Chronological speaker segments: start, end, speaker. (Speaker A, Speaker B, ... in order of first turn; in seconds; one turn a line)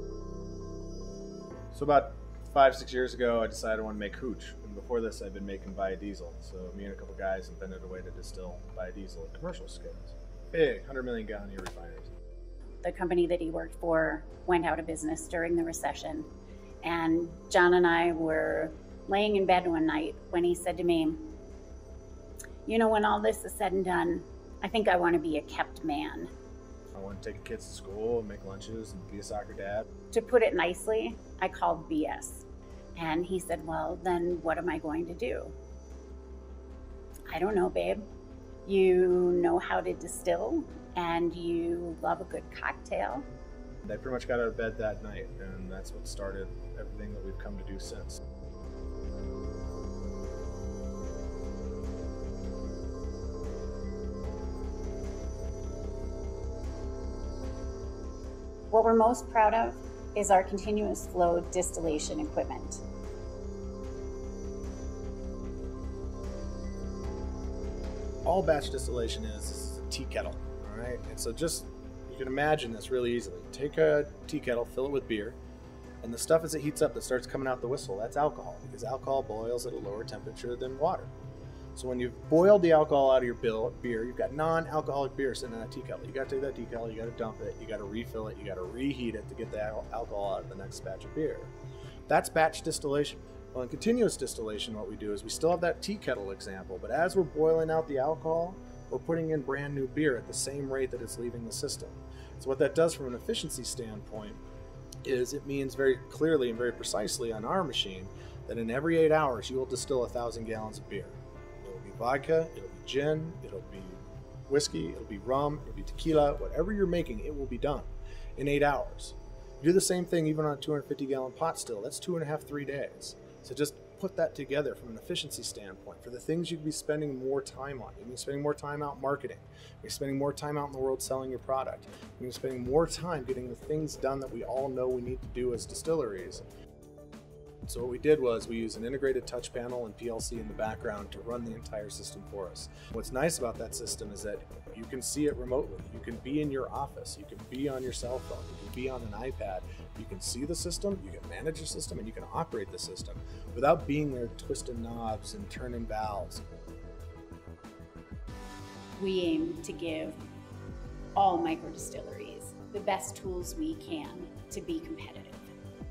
Speaker A: 1.7-12.1
Speaker B: 12.8-16.3
Speaker B: 16.8-21.4
Speaker B: 22.6-26.3
Speaker A: 26.9-29.9
Speaker B: 30.1-35.5
Speaker B: 37.3-38.0
Speaker B: 38.6-43.2
Speaker A: 43.8-48.2
Speaker B: 58.7-62.8
Speaker A: 68.2-75.4
Speaker A: 76.0-81.1
Speaker A: 81.7-91.5
Speaker A: 92.1-104.4
Speaker A: 105.0-136.4
Speaker A: 137.6-156.4
Speaker B: 158.9-160.2
Speaker B: 161.1-165.5